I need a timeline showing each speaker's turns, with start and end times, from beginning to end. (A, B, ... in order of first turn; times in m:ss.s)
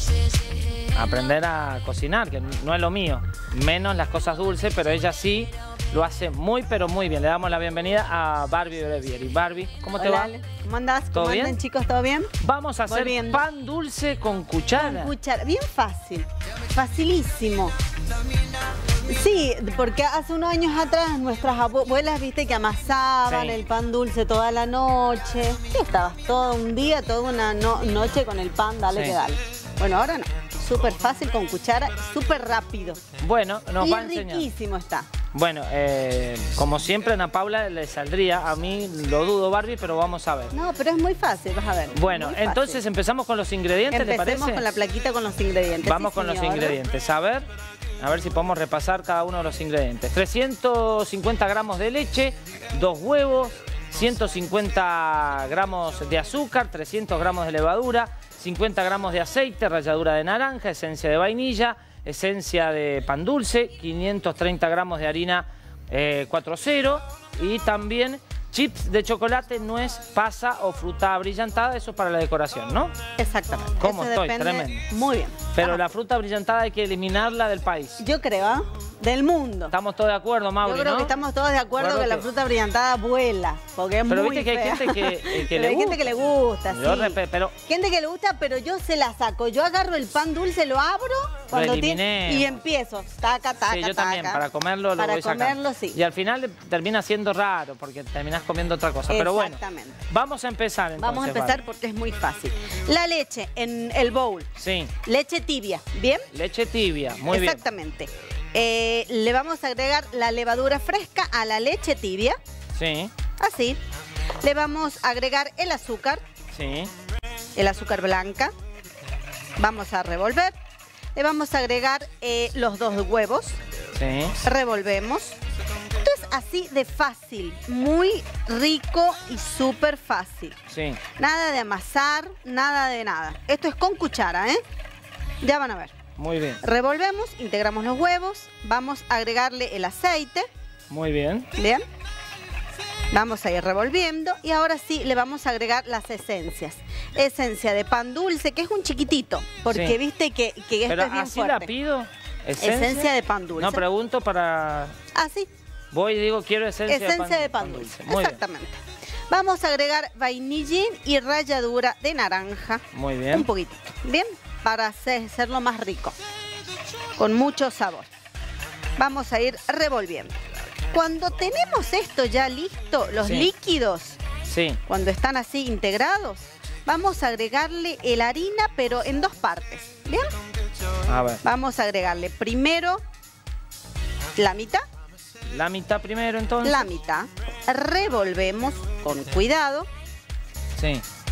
0:00.9-0:10.3 A
0:10.0-0:12.3 B
0:11.1-0:11.6 A
0:12.4-0:15.1 A
0:12.9-0:13.4 B
0:14.8-0:17.7 B
0:19.0-0:33.0 B
0:23.3-0:23.6 A
0:33.2-0:34.5 A
0:33.8-0:35.1 B
0:35.3-0:40.5 A
0:40.5-0:42.8 B
0:42.0-0:44.6 A
0:43.9-0:46.8 B
0:45.8-0:47.5 A
0:48.0-1:13.0 A
1:13.2-1:15.8 B
1:13.8-1:14.9 A
1:15.6-1:18.0 A
1:18.0-1:19.7 B
1:19.7-1:21.1 A
1:20.6-1:34.4 B
1:21.8-1:22.3 A
1:24.1-1:26.1 A
1:26.7-1:27.6 A
1:31.5-1:32.6 A
1:33.7-1:41.6 A
1:35.0-1:36.0 B
1:39.1-1:40.0 B
1:41.0-1:44.5 B
1:44.6-1:44.9 A
1:45.0-1:46.3 B
1:46.3-1:47.6 A
1:47.3-1:52.4 B
1:52.8-1:53.1 A
1:53.4-1:53.8 B
1:54.4-1:56.2 B
1:56.5-1:56.9 A
1:57.6-1:58.5 B
1:59.6-2:00.5 B
2:01.2-2:03.6 B
2:04.0-2:04.4 A
2:04.4-2:05.4 B
2:06.0-2:10.6 B
2:10.7-2:11.0 A
2:11.2-2:14.6 B
2:15.4-2:15.9 B
2:16.2-2:16.6 A
2:16.6-2:20.4 B
2:20.9-2:21.5 A
2:21.6-2:21.8 B
2:23.1-2:31.7 B
2:29.7-2:30.0 A
2:30.9-2:35.0 A
2:32.6-2:33.8 B
2:35.1-2:35.5 B
2:35.9-2:38.4 A
2:36.9-2:46.2 B
2:42.9-2:43.5 A
2:47.2-2:48.1 B
2:49.0-2:54.2 B
2:53.2-2:53.5 A
2:54.5-2:54.8 A
2:54.9-3:00.3 B
3:01.1-3:01.4 A
3:01.4-3:03.0 B
3:04.4-3:04.8 B
3:05.5-3:06.9 A
3:06.6-3:09.9 B
3:10.8-3:11.0 A